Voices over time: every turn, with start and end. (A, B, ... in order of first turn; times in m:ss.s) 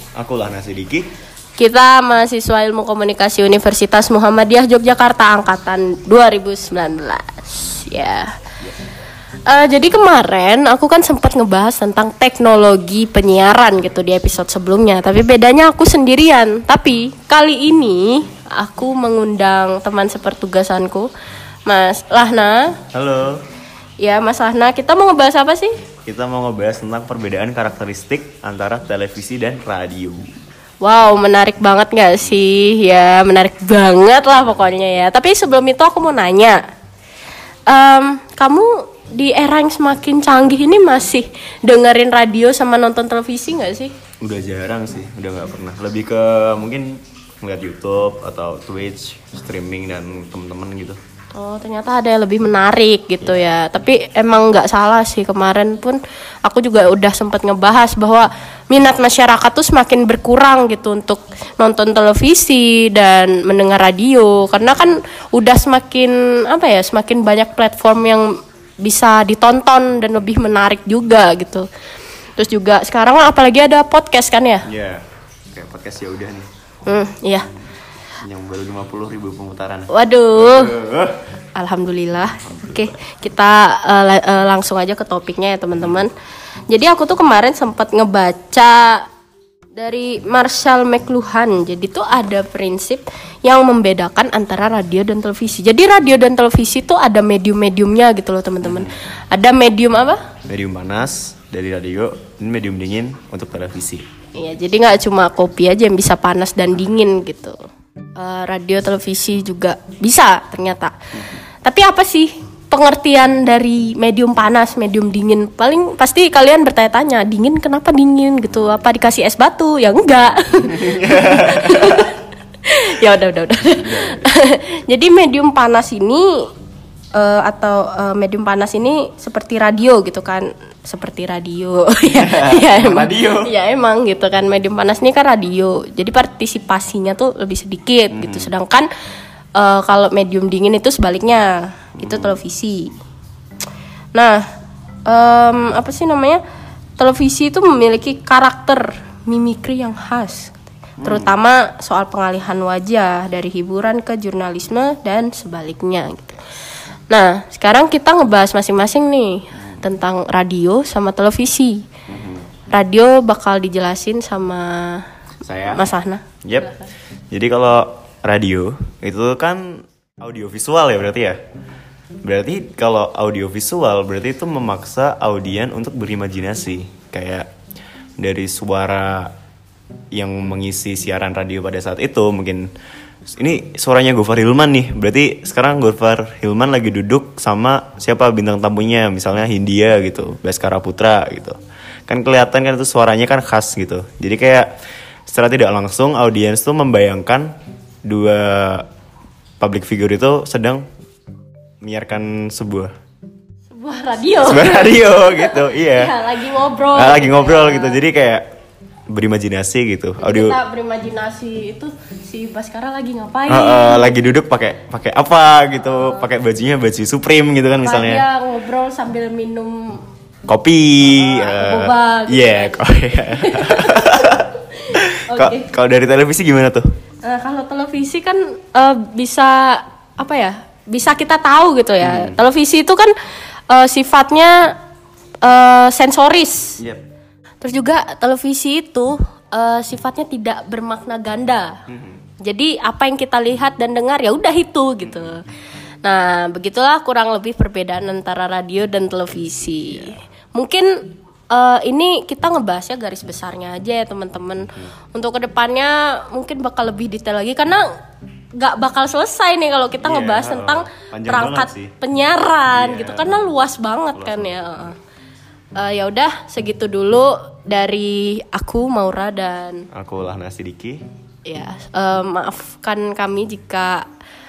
0:00.2-0:01.1 A
0:01.6-0:08.3 B
0:09.5-0:21.1 B
0:21.6-0:22.8 B
0:22.9-0:23.4 A
0:24.0-0:25.7 B
0:26.0-0:30.3 A
0:30.8-0:36.6 B
0:37.7-0:43.9 B
0:44.2-0:51.0 A
0:51.3-1:11.6 B
1:12.4-1:14.7 B
1:14.6-1:16.5 A
1:16.8-1:17.5 B
1:18.2-1:21.2 A
1:19.9-1:20.7 B
1:21.5-1:26.1 B
1:22.5-1:22.8 A
1:26.7-1:29.0 B
1:29.8-1:40.3 B
1:38.6-1:39.0 A
1:40.4-1:44.0 A
1:44.3-1:47.6 B
1:48.2-1:50.9 B
1:51.6-2:06.5 B
2:03.8-2:04.2 A
2:07.1-2:18.9 B
2:12.1-2:13.5 A
2:18.1-2:18.5 A
2:19.6-2:22.9 B
2:22.0-2:22.3 A
2:24.1-2:24.4 B
2:25.0-2:26.4 B
2:27.0-2:36.4 B
2:31.0-2:31.3 A
2:37.1-2:41.9 B
2:42.1-2:42.4 A
2:42.7-2:45.1 B
2:45.4-2:45.8 A
2:45.7-2:46.2 B
2:46.4-2:46.8 A
2:47.3-2:51.4 A
2:52.2-2:57.5 A
2:58.2-2:59.3 A
3:00.1-3:02.7 A
3:03.3-3:11.6 A
3:12.1-3:14.7 A
3:15.3-3:18.9 A
3:19.6-3:20.9 A
3:21.8-3:22.9 A
3:23.7-3:28.0 B
3:24.4-3:26.1 A
3:26.9-3:28.4 A
3:29.1-3:30.6 A
3:30.2-3:34.2 B
3:33.5-3:38.2 A
3:37.8-3:40.0 B
3:40.5-3:46.9 A
3:41.0-3:44.4 B
3:45.2-3:45.7 B
3:47.2-3:53.1 B
3:52.0-3:52.4 A
3:53.7-3:54.7 B
3:55.4-3:56.8 B
3:56.8-3:57.0 A
3:57.6-4:01.8 B
4:01.9-4:02.2 A
4:02.4-4:05.4 B
4:05.0-4:05.4 A
4:06.0-4:17.9 B
4:18.5-4:25.0 B
4:20.0-4:21.9 A
4:22.7-4:23.5 A
4:24.1-4:24.9 A
4:25.8-4:29.9 B
4:29.9-4:31.0 A
4:31.4-4:34.1 B